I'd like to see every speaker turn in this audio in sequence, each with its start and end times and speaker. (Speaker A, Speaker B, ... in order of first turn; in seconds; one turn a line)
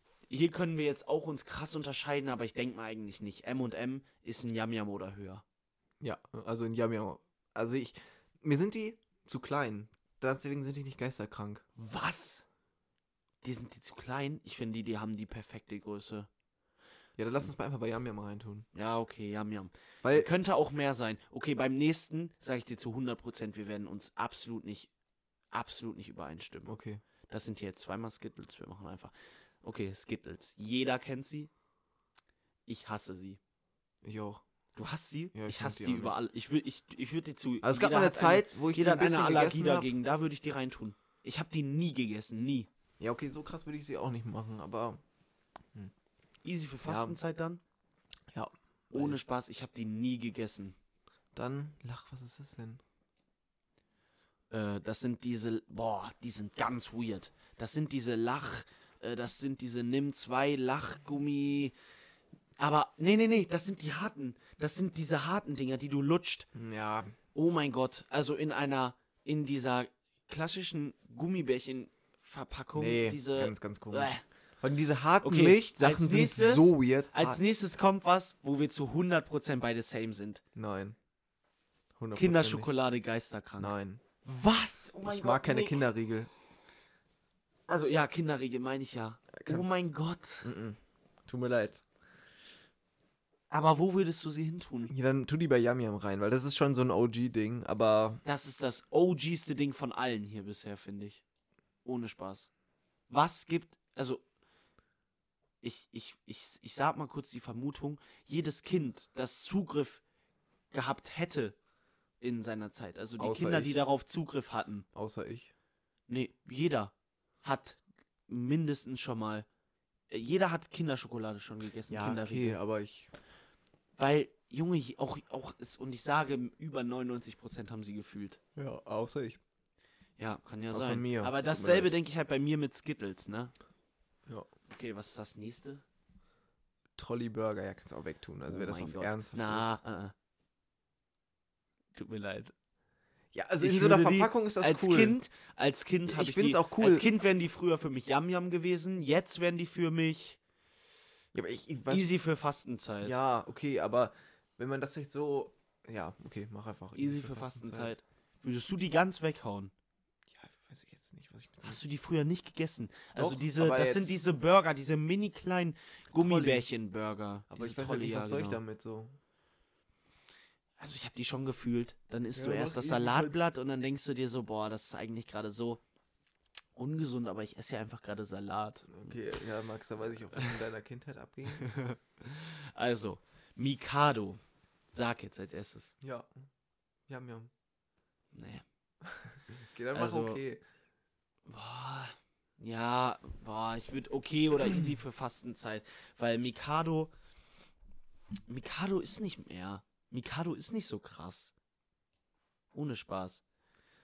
Speaker A: 0.3-5.4
Speaker B: 6.0-11.7
Speaker A: 11.8-12.4
Speaker A: 13.4-16.3
Speaker B: 17.2-18.7
Speaker A: 18.7-24.9
Speaker B: 20.0-20.3
Speaker A: 25.5-26.8
Speaker B: 26.7-27.0
Speaker A: 27.3-31.5
Speaker A: 32.7-33.4
Speaker B: 34.0-34.4
Speaker A: 34.8-42.7
Speaker B: 35.3-36.1
Speaker B: 37.6-39.9
Speaker B: 43.0-45.0
Speaker A: 46.4-47.6
Speaker B: 46.9-47.2
Speaker B: 48.3-49.2
Speaker A: 48.9-50.8
Speaker B: 51.3-52.8
Speaker A: 54.5-61.8
Speaker A: 62.6-66.5
Speaker B: 66.5-67.2
Speaker A: 67.3-74.2
Speaker B: 72.8-77.4
Speaker A: 75.2-80.4
Speaker B: 80.5-81.0
Speaker B: 82.0-82.7
Speaker A: 82.2-85.8
Speaker B: 83.6-84.0
Speaker B: 85.0-86.3
Speaker A: 87.7-90.5
Speaker B: 89.3-89.9
Speaker B: 90.4-91.8
Speaker A: 93.5-94.9
Speaker B: 94.9-98.2
Speaker A: 98.2-101.2
Speaker A: 101.8-102.5
Speaker A: 103.1-104.2
Speaker A: 105.6-110.0
Speaker A: 110.7-111.6
Speaker A: 112.2-114.9
Speaker B: 113.2-113.8
Speaker B: 115.0-115.5
Speaker A: 116.1-119.5
Speaker A: 120.1-122.6
Speaker B: 121.9-123.1
Speaker A: 124.0-128.4
Speaker B: 128.6-129.4
Speaker A: 130.2-133.5
Speaker B: 130.7-131.9
Speaker A: 134.7-135.8
Speaker B: 137.0-139.8
Speaker A: 138.5-140.1
Speaker A: 141.9-142.5
Speaker B: 143.3-145.2
Speaker A: 143.6-150.4
Speaker B: 146.1-147.1
Speaker B: 151.3-152.1
Speaker A: 151.9-153.2
Speaker B: 153.0-157.9
Speaker A: 156.9-159.7
Speaker B: 160.3-161.8
Speaker A: 161.6-168.6
Speaker B: 163.2-164.2
Speaker B: 166.1-166.7
Speaker B: 167.5-169.2
Speaker A: 170.8-175.8
Speaker B: 172.3-173.4
Speaker A: 176.8-179.1
Speaker B: 178.9-181.7
Speaker A: 181.6-184.4
Speaker A: 184.9-185.9
Speaker B: 186.0-186.4
Speaker B: 187.1-187.5
Speaker A: 188.3-188.6
Speaker B: 189.0-190.6
Speaker A: 189.9-190.4
Speaker A: 191.5-197.1
Speaker A: 198.5-201.5
Speaker A: 202.7-203.4